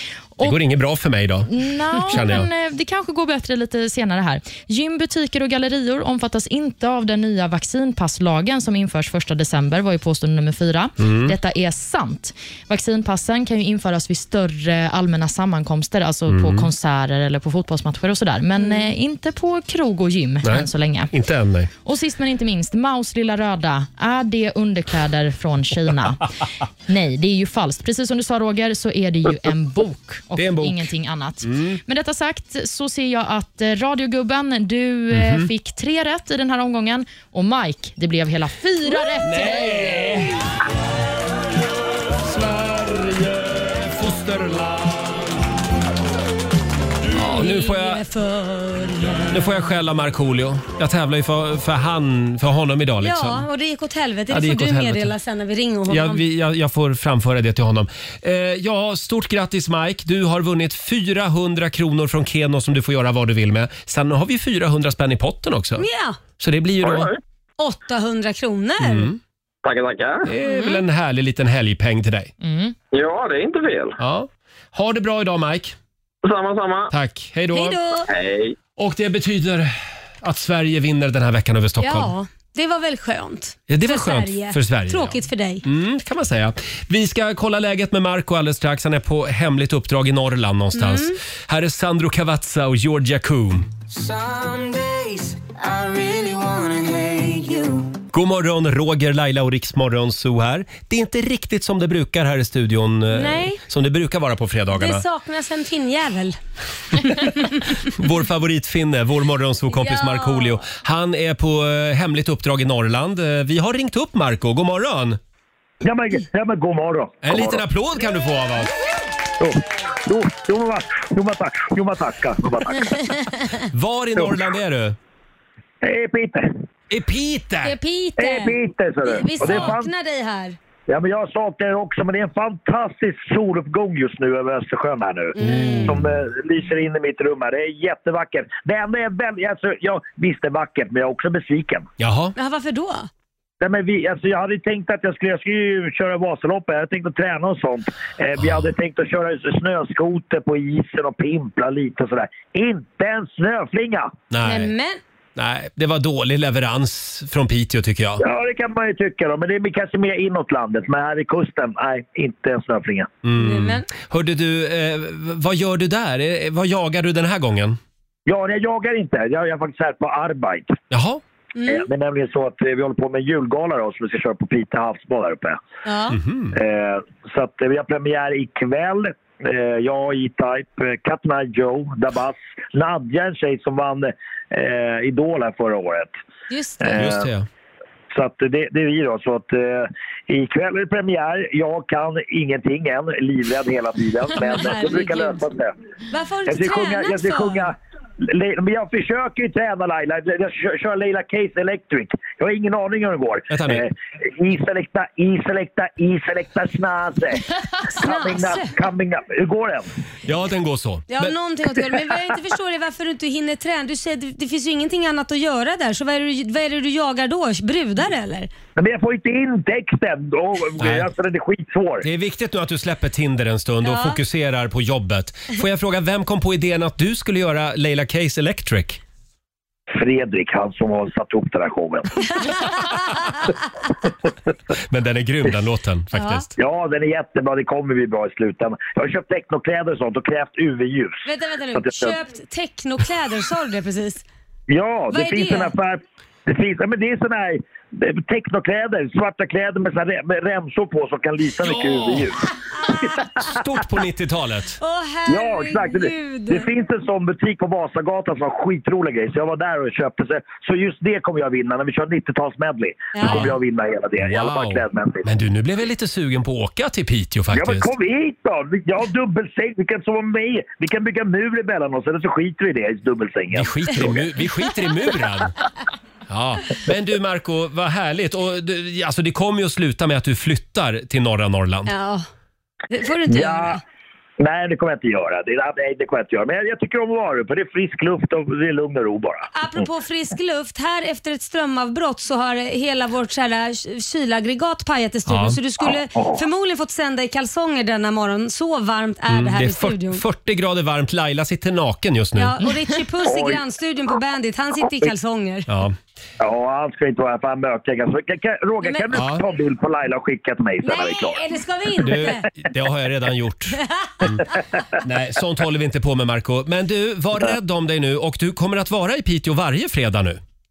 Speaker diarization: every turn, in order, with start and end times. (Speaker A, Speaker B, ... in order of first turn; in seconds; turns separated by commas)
Speaker A: 0.4-2.5, Speaker B: 1.5-21.1, Speaker A: 11.0-11.3, Speaker A: 16.3-16.7, Speaker A: 20.4-21.7, Speaker B: 21.8-26.2, Speaker B: 26.9-40.1, Speaker A: 30.4-30.9, Speaker A: 31.4-31.8, Speaker A: 35.1-35.5, Speaker A: 39.2-40.4, Speaker A: 42.2-45.2, Speaker A: 47.1-48.0, Speaker C: 47.1-49.6, Speaker A: 49.3-53.4, Speaker C: 53.0-56.2, Speaker A: 54.3-55.1, Speaker A: 55.9-65.8, Speaker C: 65.8-66.2, Speaker A: 66.4-67.1, Speaker D: 66.8-67.2, Speaker C: 67.6-69.1, Speaker A: 68.8-69.2, Speaker D: 69.6-70.3, Speaker A: 70.2-72.3, Speaker C: 70.4-70.8, Speaker B: 72.4-72.7, Speaker D: 72.9-74.0, Speaker A: 74.0-75.7, Speaker D: 76.2-76.9, Speaker A: 76.9-77.8, Speaker C: 77.5-78.1, Speaker D: 78.1-78.6, Speaker A: 78.8-82.1, Speaker C: 81.8-85.6, Speaker A: 83.7-93.7, Speaker C: 90.7-91.2, Speaker E: 93.9-97.9, Speaker A: 98.1-105.0, Speaker C: 103.1-103.6, Speaker C: 104.7-106.4, Speaker A: 107.0-107.3, Speaker A: 107.8-115.2, Speaker C: 109.7-110.6, Speaker F: 115.8-117.6, Speaker A: 117.2-118.7, Speaker F: 119.4-122.9, Speaker A: 123.7-125.0, Speaker F: 125.8-126.5, Speaker A: 126.9-127.8, Speaker C: 127.6-130.6, Speaker F: 128.2-129.9, Speaker F: 130.9-141.9, Speaker C: 135.3-136.0, Speaker A: 135.4-136.0, Speaker A: 142.0-142.3, Speaker C: 142.3-143.1, Speaker F: 143.6-154.1, Speaker A: 148.4-148.7, Speaker A: 154.3-154.7, Speaker C: 154.4-155.0, Speaker A: 155.3-158.2, Speaker F: 158.2-163.1, Speaker A: 163.2-167.8, Speaker C: 163.4-163.9, Speaker F: 168.3-170.7, Speaker A: 170.9-171.2, Speaker C: 171.6-171.9, Speaker F: 171.7-175.6, Speaker C: 175.8-176.2, Speaker A: 176.1-176.5, Speaker F: 176.5-186.1, Speaker C: 186.5-187.0, Speaker F: 186.8-187.3, Speaker A: 186.9-187.5, Speaker F: 188.1-195.7, Speaker C: 194.4-195.5, Speaker C: 196.1-197.7, Speaker F: 196.5-207.4, Speaker A: 203.5-203.8, Speaker C: 207.9-208.7, Speaker F: 208.0-209.9, Speaker A: 210.2-211.3, Speaker C: 211.1-218.5, Speaker F: 218.8-222.1, Speaker A: 220.8-221.1, Speaker A: 222.0-229.0, Speaker C: 223.8-224.2, Speaker F: 229.9-232.1, Speaker A: 234.9-236.5, Speaker C: 236.1-236.4, Speaker F: 236.6-241.2, Speaker C: 241.2-244.2, Speaker F: 241.7-242.2, Speaker F: 244.7-252.4, Speaker C: 245.1-245.7, Speaker A: 251.6-252.3, Speaker C: 252.7-253.2, Speaker A: 253.4-254.8, Speaker C: 254.8-256.7, Speaker F: 255.3-265.2, Speaker C: 263.1-263.5, Speaker A: 263.2-263.6, Speaker A: 264.2-267.9, Speaker F: 267.5-274.2, Speaker A: 273.5-275.5, Speaker A: 276.3-281.9, Speaker C: 281.9-282.2, Speaker C: 282.9-283.8, Speaker F: 283.3-283.8, Speaker F: 284.4-289.8, Speaker C: 289.5-300.2, Speaker A: 295.3-295.6, Speaker F: 296.1-296.4, Speaker A: 299.3-302.6, Speaker C: 302.4-305.7, Speaker F: 303.2-303.6, Speaker A: 305.7-305.9, Speaker F: 306.4-311.4, Speaker A: 309.1-309.4, Speaker C: 310.8-312.5, Speaker A: 312.0-314.4, Speaker C: 313.8-314.1, Speaker A: 315.0-320.4